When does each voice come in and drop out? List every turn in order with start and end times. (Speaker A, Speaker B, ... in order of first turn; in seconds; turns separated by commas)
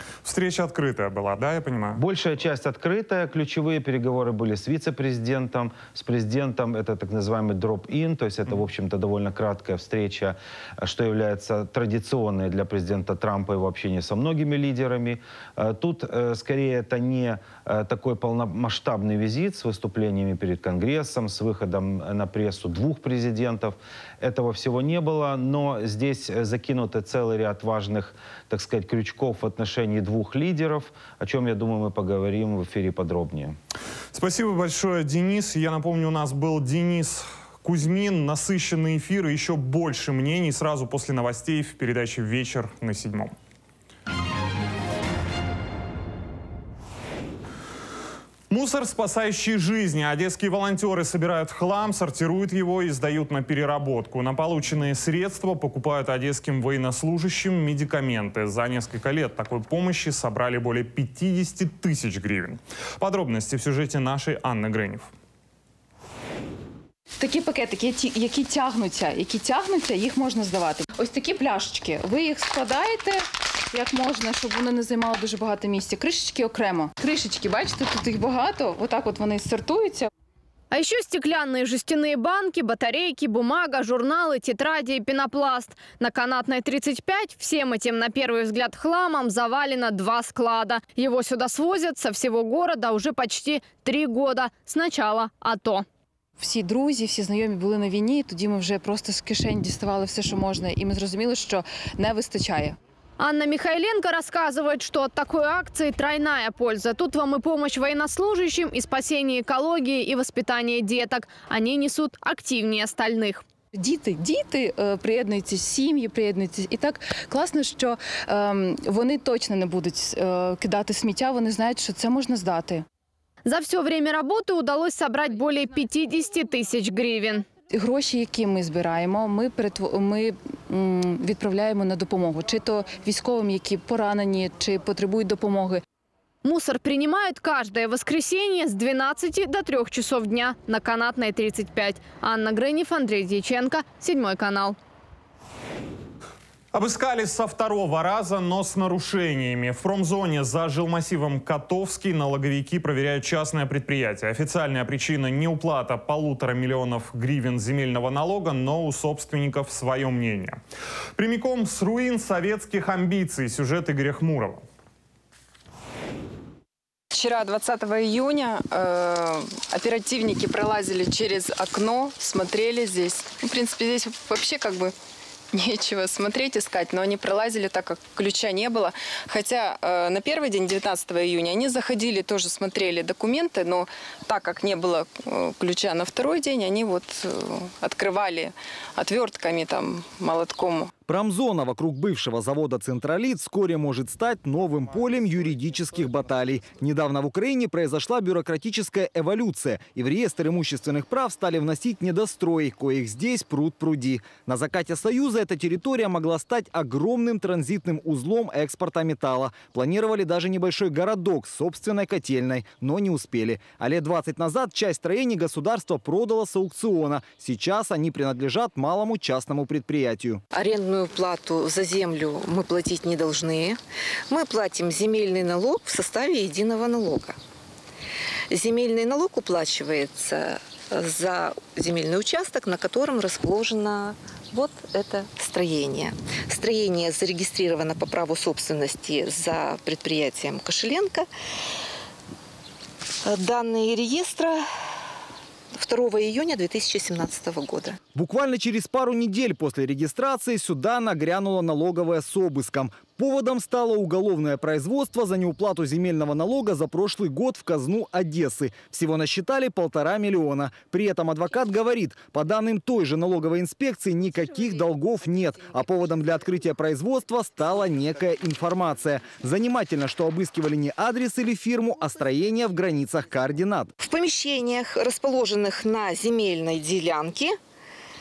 Speaker A: 0.2-2.0, Speaker B: 2.0-33.5, Speaker A: 34.1-43.3, Speaker A: 48.5-65.1, Speaker C: 67.2-80.1, Speaker D: 80.7-95.8, Speaker C: 96.4-102.8, Speaker D: 103.2-113.4, Speaker C: 113.7-122.8, Speaker D: 123.4-127.5, Speaker C: 127.7-135.8, Speaker D: 136.4-144.8, Speaker A: 146.7-160.6, Speaker A: 161.2-164.6, Speaker E: 167.1-174.9, Speaker E: 175.5-190.9, Speaker F: 191.1-220.4, Speaker G: 220.5-227.4, Speaker G: 228.5-241.3, Speaker G: 243.2-244.6, Speaker G: 245.7-248.0, Speaker F: 248.1-273.9, Speaker G: 274.0-277.6